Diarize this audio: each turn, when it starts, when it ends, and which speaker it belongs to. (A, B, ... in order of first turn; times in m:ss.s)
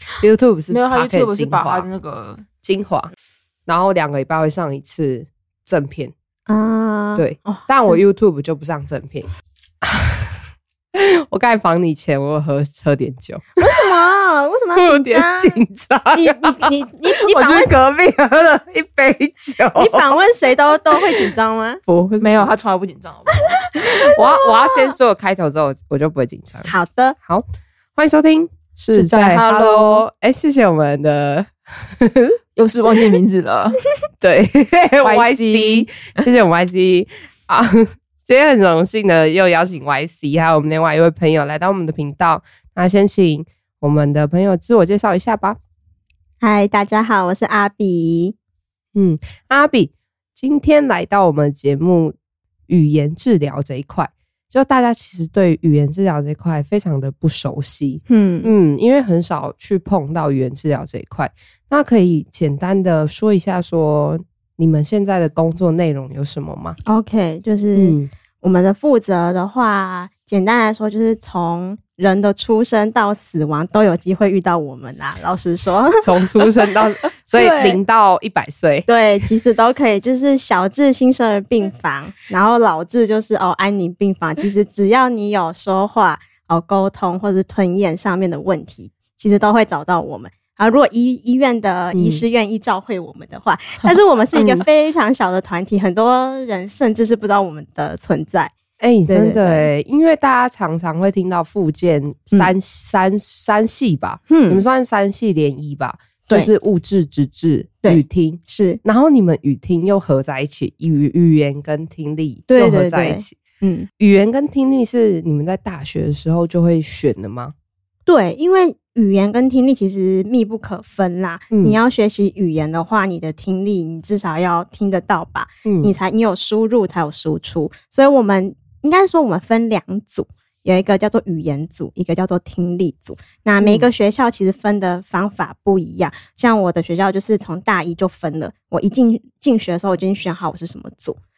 0:00.2-0:01.9 A
0:00.7-0:02.5 B
0:02.6-0:03.1 A
0:03.6-0:06.1 A
0:06.5-0:08.0 C
0:07.2-0:09.3 A
0:09.8-0:10.3 A
0:10.9-0:13.6 A
0:13.6-0:15.6 C
0:14.8-0:20.1 A
0:16.1-0:17.8 C
0:19.8-0:21.8 C
0:21.9-0:22.5 A
0:22.2-0:24.0 B
0:23.7-0:24.9 C
0:24.1-0:26.7 A
0:26.6-0:27.2 C
0:28.0-0:32.4 A
0:28.9-0:30.0 B
0:32.6-0:33.8 B
0:34.2-0:45.6 A
0:35.0-0:36.1 B
0:46.4-0:48.3 C
0:49.0-0:52.2 A
0:52.7-1:06.8 A
0:58.1-0:58.5 C
1:06.9-1:16.5 C
1:07.7-1:08.1 A
1:16.0-1:18.9 A
1:17.4-1:17.8 C
1:18.9-1:38.5 C
1:31.9-1:32.2 A
1:34.3-1:34.6 A
1:38.8-1:53.4 A
1:39.1-1:39.7 C
1:44.3-1:44.6 C
1:47.8-1:48.8 C
1:52.5-1:53.9 C
1:54.0-1:57.5 A
1:58.1-2:21.2 C
2:01.5-2:01.8 A
2:05.6-2:05.9 A
2:13.6-2:13.9 A